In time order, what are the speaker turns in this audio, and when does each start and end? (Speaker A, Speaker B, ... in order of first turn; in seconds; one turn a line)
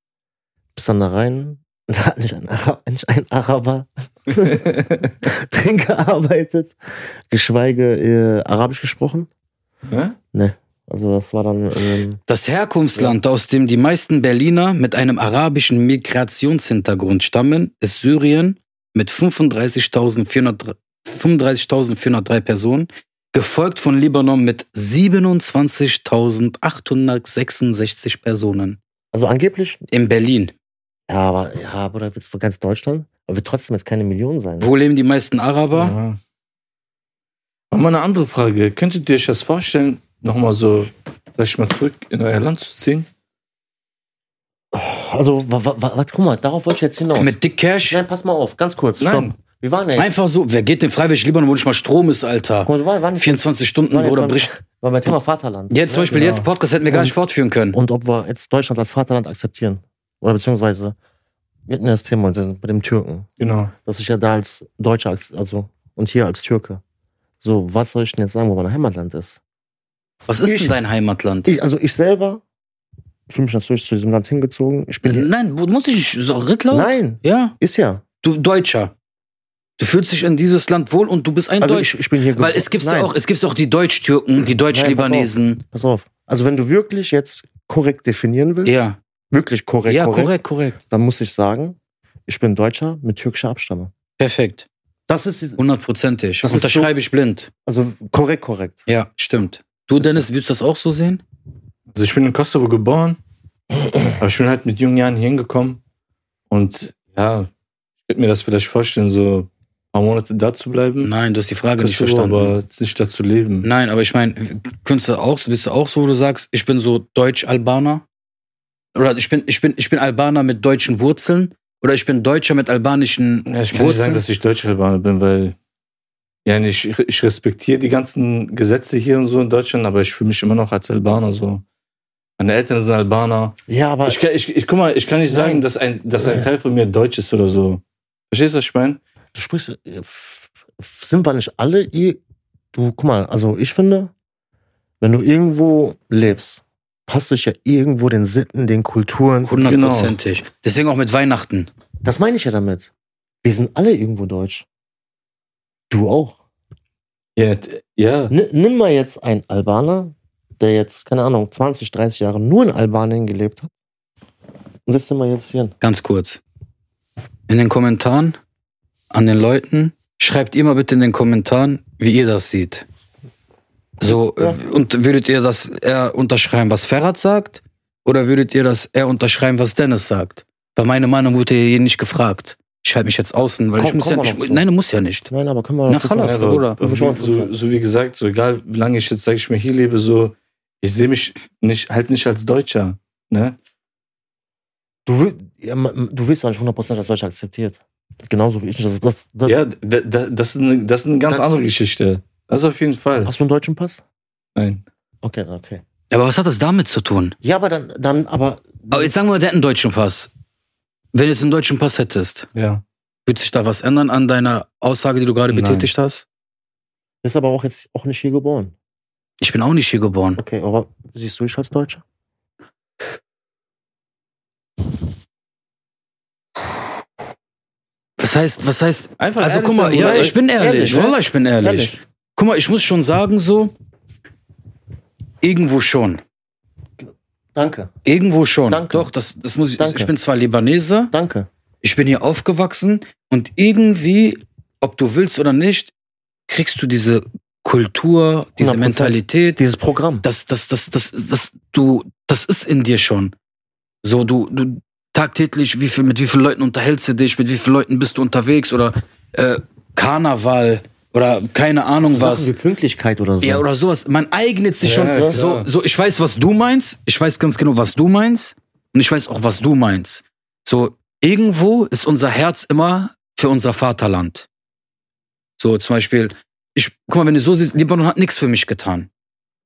Speaker A: 0.7-6.8
Speaker B: 4.5-4.9
Speaker A: 7.3-9.3
Speaker B: 9.9-10.2
Speaker A: 10.3-12.2
Speaker C: 12.3-28.8
Speaker A: 29.1-29.8
Speaker C: 29.9-30.5
Speaker A: 31.1-34.7
Speaker C: 34.6-36.0
Speaker B: 35.7-36.2
Speaker B: 37.7-43.1
Speaker A: 44.7-47.4
Speaker C: 47.2-48.0
Speaker A: 47.9-50.1
Speaker B: 49.0-49.3
Speaker C: 50.0-54.5
Speaker A: 52.6-56.3
Speaker C: 55.7-57.8
Speaker B: 56.1-56.4
Speaker A: 56.9-57.1
Speaker A: 57.7-61.0
Speaker A: 61.7-63.3
Speaker B: 63.4-63.7
Speaker A: 63.9-66.8
Speaker A: 67.4-69.4
Speaker C: 70.3-71.5
Speaker A: 70.4-70.7
Speaker A: 71.4-72.4
Speaker A: 73.3-75.3
Speaker C: 75.0-77.5
Speaker A: 76.7-78.0
Speaker C: 78.2-78.9
Speaker C: 79.8-85.6
Speaker A: 81.6-83.1
Speaker A: 84.6-90.3
Speaker C: 88.6-89.0
Speaker C: 89.9-90.8
Speaker A: 90.9-93.9
Speaker C: 94.2-94.7
Speaker A: 95.1-95.6
Speaker C: 95.6-97.5
Speaker A: 96.4-96.9
Speaker A: 97.7-98.8
Speaker C: 98.9-101.2
Speaker A: 100.0-100.2
Speaker B: 101.9-103.2
Speaker B: 104.2-105.8
Speaker B: 106.5-107.5
Speaker B: 108.1-111.1
Speaker C: 111.0-112.6
Speaker B: 111.8-113.7
Speaker C: 113.6-118.0
Speaker C: 118.9-124.3
Speaker B: 123.5-125.6
Speaker B: 126.5-131.6
Speaker B: 132.4-139.0
Speaker A: 133.7-134.2
Speaker A: 135.3-135.6
Speaker A: 136.2-136.5
Speaker A: 139.3-142.2
Speaker A: 142.7-144.1
Speaker A: 145.0-149.6
Speaker C: 149.4-151.7
Speaker B: 149.5-150.1
Speaker A: 152.0-152.9
Speaker A: 153.4-154.7
Speaker A: 155.9-156.4
Speaker B: 157.4-158.3
Speaker A: 158.3-163.7
Speaker A: 164.9-165.7
Speaker C: 165.8-166.4
Speaker C: 167.5-168.4
Speaker C: 169.1-172.8
Speaker C: 174.0-185.3
Speaker A: 183.8-184.6
Speaker A: 185.3-187.5
Speaker C: 185.9-186.8
Speaker B: 186.2-193.6
Speaker A: 195.1-199.6
Speaker B: 199.4-203.3
Speaker A: 201.3-201.6
Speaker A: 203.2-204.0
Speaker B: 204.6-204.8
Speaker A: 205.2-205.8
Speaker C: 206.1-207.3
Speaker A: 207.4-209.1
Speaker C: 208.9-210.3
Speaker C: 211.1-212.5
Speaker B: 212.5-212.8
Speaker C: 213.2-216.2
Speaker B: 215.5-215.9
Speaker A: 217.2-218.7
Speaker C: 219.4-220.4
Speaker A: 220.4-222.0
Speaker C: 228.2-233.7
Speaker B: 229.2-230.4
Speaker A: 229.9-232.0
Speaker C: 235.4-236.2
Speaker A: 237.6-237.9
Speaker C: 238.1-241.1
Speaker A: 238.7-239.1
Speaker A: 239.8-240.1
Speaker A: 241.1-241.5
Speaker C: 241.8-245.9
Speaker C: 246.5-249.6
Speaker A: 248.6-250.2
Speaker C: 250.2-253.3
Speaker C: 254.0-262.5
Speaker A: 262.1-263.6
Speaker C: 263.4-274.5
Speaker B: 264.8-265.7
Speaker A: 264.9-265.4
Speaker C: 275.6-279.1